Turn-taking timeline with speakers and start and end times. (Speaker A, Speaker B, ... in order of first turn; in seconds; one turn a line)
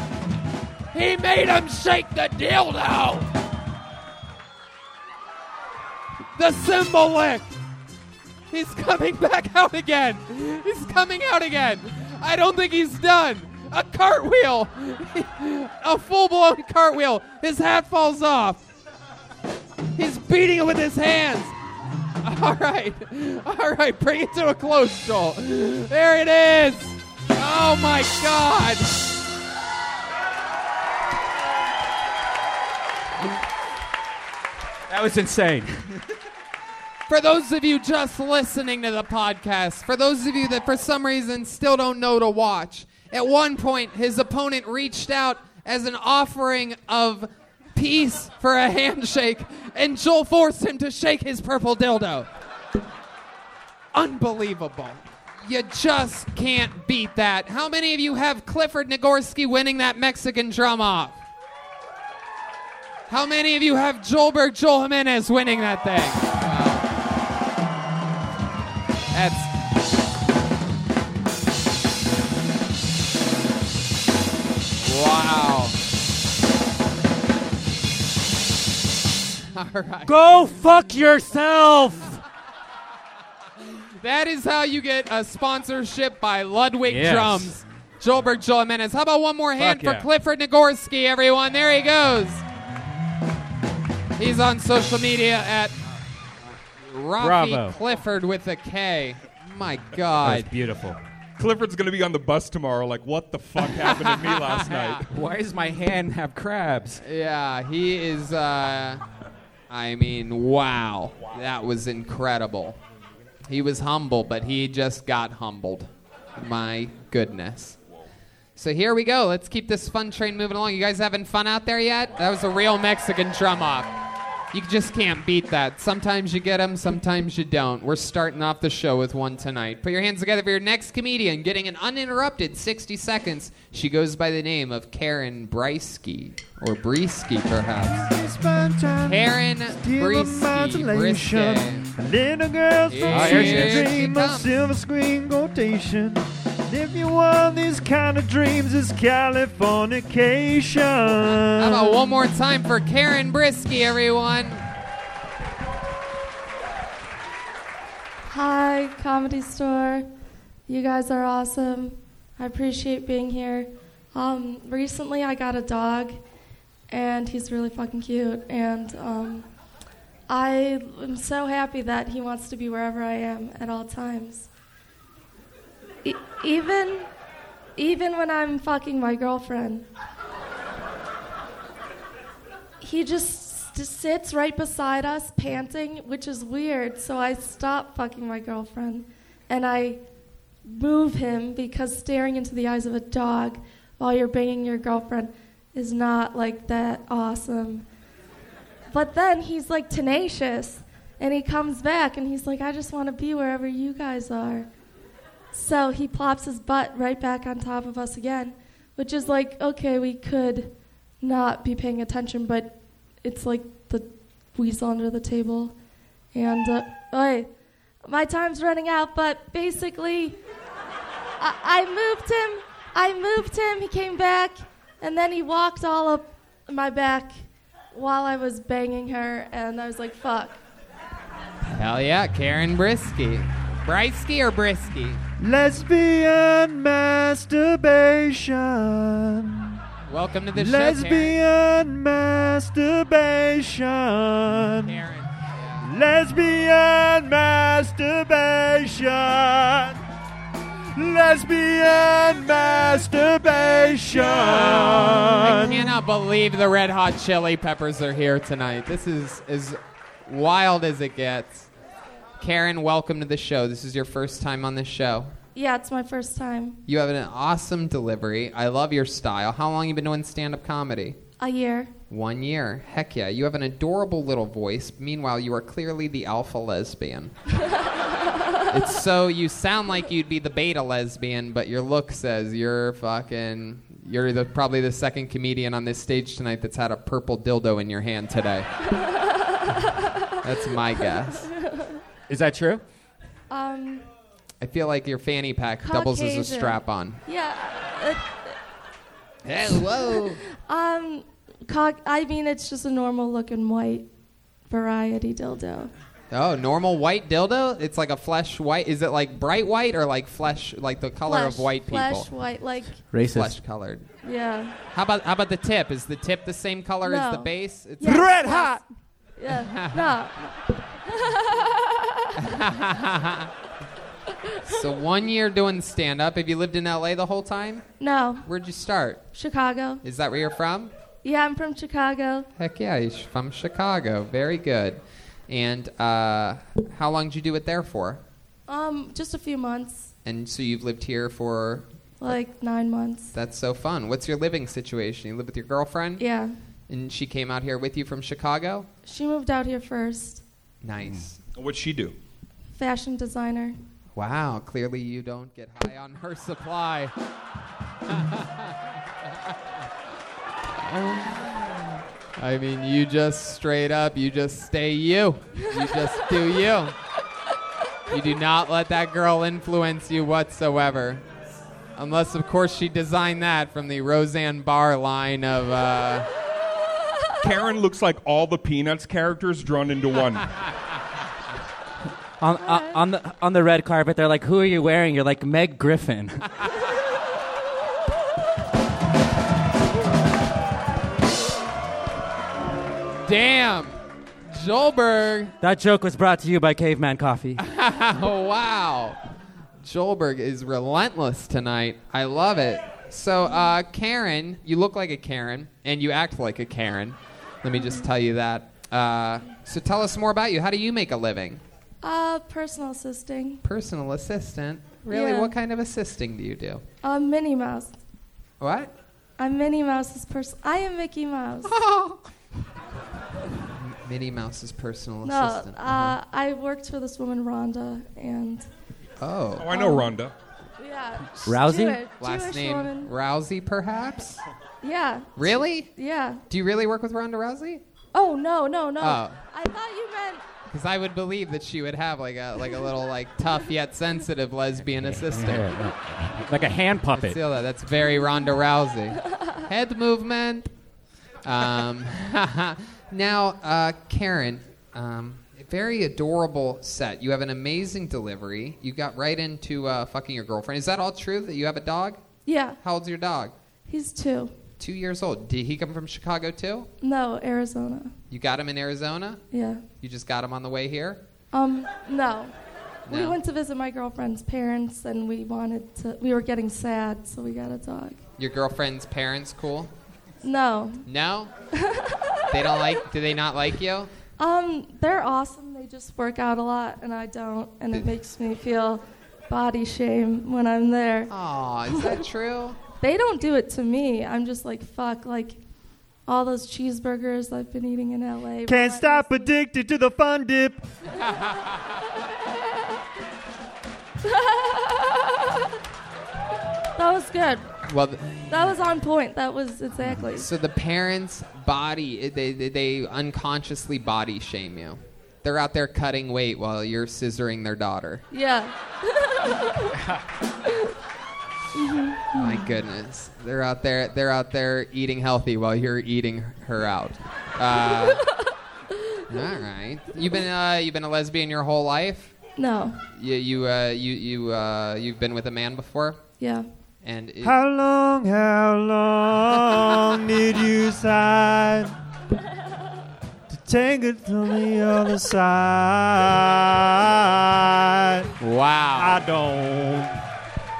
Speaker A: 0.9-3.3
Speaker A: 6.4-7.5
Speaker A: 8.5-18.6
Speaker A: 20.0-21.6
Speaker A: 22.2-28.9
Speaker B: 34.9-36.0
Speaker A: 37.1-52.3
Speaker A: 53.9-61.2
Speaker A: 63.1-66.8
Speaker A: 69.1-69.5
Speaker A: 74.8-75.8
Speaker A: 79.5-80.2
Speaker C: 80.1-82.2
Speaker A: 84.0-92.4
Speaker B: 86.9-87.5
Speaker B: 89.6-90.1
Speaker A: 94.2-95.7
Speaker A: 96.8-100.5
Speaker B: 97.2-97.8
Speaker B: 100.2-101.0
Speaker D: 101.4-105.0
Speaker A: 103.6-105.0
Speaker B: 105.1-107.0
Speaker A: 107.0-109.0
Speaker A: 109.7-112.8
Speaker A: 113.5-117.8
Speaker A: 118.6-123.9
Speaker A: 124.5-138.1
Speaker E: 137.8-152.0
Speaker A: 139.0-141.9
Speaker A: 142.9-144.5
Speaker B: 143.1-143.9
Speaker A: 151.3-154.6
Speaker F: 158.3-160.1
Speaker F: 160.7-166.2
Speaker F: 166.9-169.5
Speaker F: 170.3-174.5
Speaker F: 176.0-177.1
Speaker F: 177.8-179.9
Speaker F: 182.8-190.0
Speaker F: 190.7-197.9
Speaker F: 198.9-204.7
Speaker F: 205.5-215.8
Speaker F: 216.3-217.5
Speaker F: 218.1-220.4
Speaker F: 221.4-230.6
Speaker A: 231.7-235.2
Speaker E: 235.4-239.8
Speaker A: 240.1-241.4
Speaker E: 240.5-245.0
Speaker A: 244.8-245.9
Speaker E: 245.8-250.0
Speaker E: 250.9-256.0
Speaker A: 254.2-261.7
Speaker A: 262.4-265.3
Speaker F: 265.6-266.8
Speaker A: 266.9-271.2
Speaker F: 271.4-271.9
Speaker A: 272.1-277.3
Speaker F: 278.1-278.6
Speaker A: 278.7-288.7
Speaker F: 288.9-290.4
Speaker A: 290.4-291.5
Speaker F: 291.0-292.0
Speaker B: 292.3-292.8
Speaker F: 293.5-294.1
Speaker A: 294.6-297.2
Speaker F: 295.8-298.6
Speaker A: 299.4-300.4
Speaker F: 300.5-304.1
Speaker F: 304.7-305.9
Speaker A: 306.3-312.3
Speaker F: 311.3-313.1
Speaker C: 313.1-313.5
Speaker A: 313.2-314.1
Speaker F: 314.2-314.7
Speaker A: 314.9-318.3
Speaker F: 317.0-318.8
Speaker E: 318.0-318.8
Speaker F: 319.4-322.3
Speaker A: 319.6-320.0
Speaker A: 322.4-323.5
Speaker A: 324.6-327.9
Speaker F: 328.0-328.5
Speaker A: 328.4-329.2
Speaker F: 329.3-330.0
Speaker A: 330.0-330.9
Speaker F: 331.2-332.5
Speaker A: 332.6-338.2
Speaker F: 338.7-340.1
Speaker A: 340.2-342.3
Speaker F: 342.2-343.3
Speaker A: 343.3-346.2
Speaker F: 346.2-346.6
Speaker A: 346.9-348.9
Speaker F: 349.1-350.4
Speaker A: 350.8-351.4
Speaker D: 351.6-352.2
Speaker F: 352.8-353.8
Speaker A: 354.1-357.1
Speaker A: 358.1-358.8
Speaker A: 360.8-366.9
Speaker A: 368.1-371.2
Speaker A: 372.0-376.3
Speaker D: 377.4-380.6
Speaker C: 382.4-386.4
Speaker F: 382.6-383.0
Speaker A: 393.2-394.0
Speaker A: 394.5-395.5
Speaker C: 395.6-397.6
Speaker A: 397.6-399.2
Speaker A: 399.8-411.6
Speaker F: 407.8-408.1
Speaker F: 412.0-413.6
Speaker A: 413.6-416.8
Speaker F: 415.1-415.5
Speaker F: 417.0-418.0
Speaker A: 418.6-418.9
Speaker F: 419.4-421.7
Speaker A: 421.6-422.2
Speaker A: 423.8-426.1
Speaker F: 425.2-428.7
Speaker A: 429.2-429.7
Speaker D: 429.6-430.3
Speaker F: 429.7-430.1
Speaker F: 430.8-433.1
Speaker C: 431.4-432.0
Speaker A: 432.2-434.4
Speaker F: 434.8-436.4
Speaker A: 435.4-435.9
Speaker A: 436.5-437.8
Speaker F: 438.1-440.4
Speaker A: 439.0-439.4
Speaker A: 440.7-445.7
Speaker B: 445.0-447.4
Speaker A: 447.2-450.7
Speaker A: 451.4-462.2
Speaker F: 462.5-462.8
Speaker A: 462.8-463.5
Speaker F: 463.9-464.5
Speaker A: 464.8-466.9
Speaker F: 467.0-468.1
Speaker A: 468.3-469.4
Speaker F: 469.5-469.8
Speaker A: 470.0-471.2
Speaker F: 471.5-472.5
Speaker A: 473.1-473.4
Speaker F: 473.1-478.2
Speaker A: 478.4-479.9
Speaker F: 480.4-481.1
Speaker A: 481.1-481.5
Speaker F: 481.8-482.4
Speaker A: 482.5-484.1
Speaker F: 484.4-491.3
Speaker A: 491.3-492.8
Speaker F: 491.9-492.2
Speaker F: 493.0-495.6
Speaker F: 496.3-499.3
Speaker E: 498.6-500.8
Speaker F: 504.2-505.7
Speaker F: 507.0-507.7
Speaker A: 507.9-508.5
Speaker F: 508.5-510.5
Speaker A: 510.3-518.2
Speaker F: 518.3-520.0
Speaker F: 521.8-522.7
Speaker A: 522.4-528.2
Speaker F: 527.8-528.5
Speaker A: 529.3-532.4
Speaker F: 532.6-533.0
Speaker A: 533.1-536.2
Speaker F: 536.4-536.7
Speaker A: 537.0-537.5
Speaker E: 537.4-541.9
Speaker E: 543.5-548.3
Speaker A: 548.4-549.2
Speaker E: 549.0-550.2